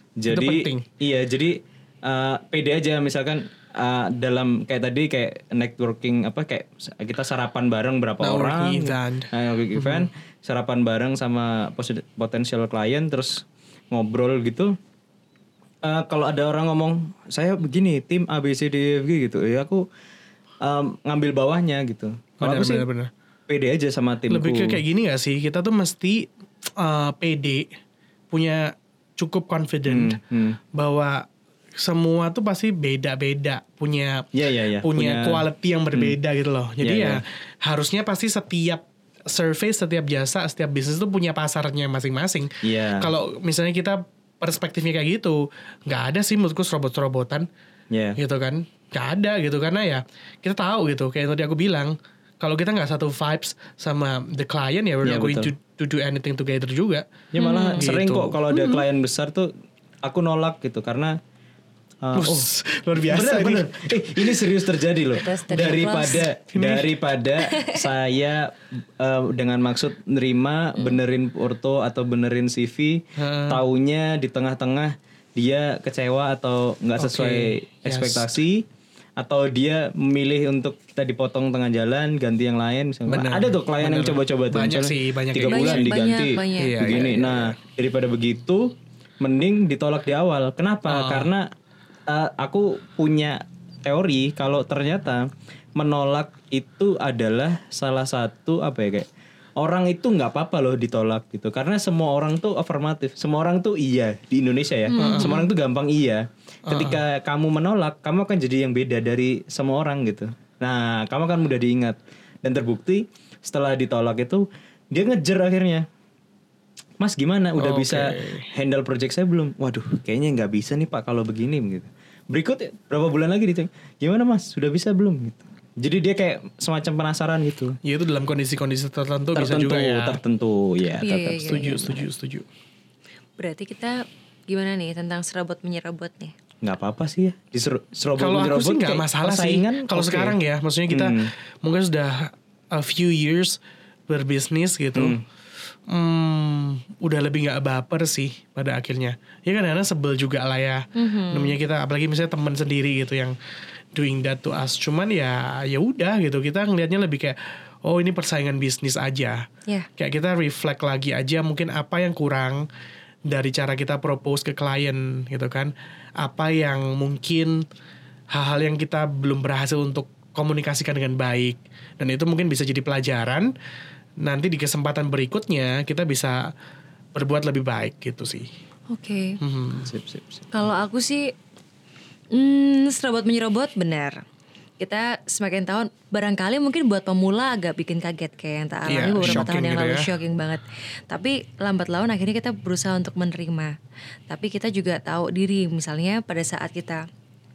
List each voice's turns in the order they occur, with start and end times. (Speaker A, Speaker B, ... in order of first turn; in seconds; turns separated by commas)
Speaker A: 0.2-14.7, Speaker B: 0.3-0.8, Speaker B: 8.2-10.1, Speaker A: 15.8-19.9, Speaker A: 20.6-22.9, Speaker B: 22.4-23.1, Speaker A: 23.5-24.8, Speaker B: 24.3-26.3, Speaker B: 26.8-27.7, Speaker B: 28.3-30.2, Speaker A: 29.9-30.6, Speaker B: 30.7-31.2, Speaker B: 31.8-34.3, Speaker A: 34.3-36.2, Speaker B: 34.8-47.5, Speaker A: 36.8-37.2, Speaker A: 42.6-43.1, Speaker A: 47.9-48.2, Speaker B: 48.2-57.2, Speaker A: 55.0-55.5, Speaker A: 57.3-59.5, Speaker C: 57.4-57.9, Speaker B: 57.8-58.8, Speaker A: 60.0-61.1, Speaker A: 62.0-62.5, Speaker B: 62.1-63.7, Speaker A: 63.0-78.6, Speaker C: 65.1-66.3, Speaker B: 66.5-66.9, Speaker C: 67.4-67.8, Speaker B: 73.2-73.6, Speaker B: 77.0-78.3, Speaker A: 79.2-91.5, Speaker B: 83.1-85.9, Speaker C: 85.5-87.1, Speaker B: 86.5-87.5, Speaker B: 90.9-91.3, Speaker A: 92.1-99.1, Speaker A: 99.6-115.8, Speaker C: 104.9-105.5, Speaker B: 105.0-105.4, Speaker B: 106.7-107.0, Speaker A: 117.0-127.8, Speaker B: 117.6-118.5, Speaker B: 127.8-130.2, Speaker A: 129.3-131.6, Speaker C: 131.0-132.1, Speaker B: 131.4-132.5, Speaker C: 133.4-136.3, Speaker A: 136.6-141.3, Speaker B: 138.2-145.2, Speaker A: 144.9-145.2, Speaker B: 145.9-153.3, Speaker C: 150.9-151.5, Speaker B: 153.9-159.4, Speaker B: 160.0-162.7, Speaker B: 163.3-167.6, Speaker B: 168.3-173.5, Speaker B: 174.2-176.4, Speaker B: 177.1-178.5, Speaker C: 178.9-179.4, Speaker B: 179.4-179.9, Speaker A: 179.8-180.5, Speaker C: 180.5-181.3, Speaker C: 182.3-184.2, Speaker C: 184.8-193.8, Speaker B: 188.9-190.1, Speaker C: 194.3-197.0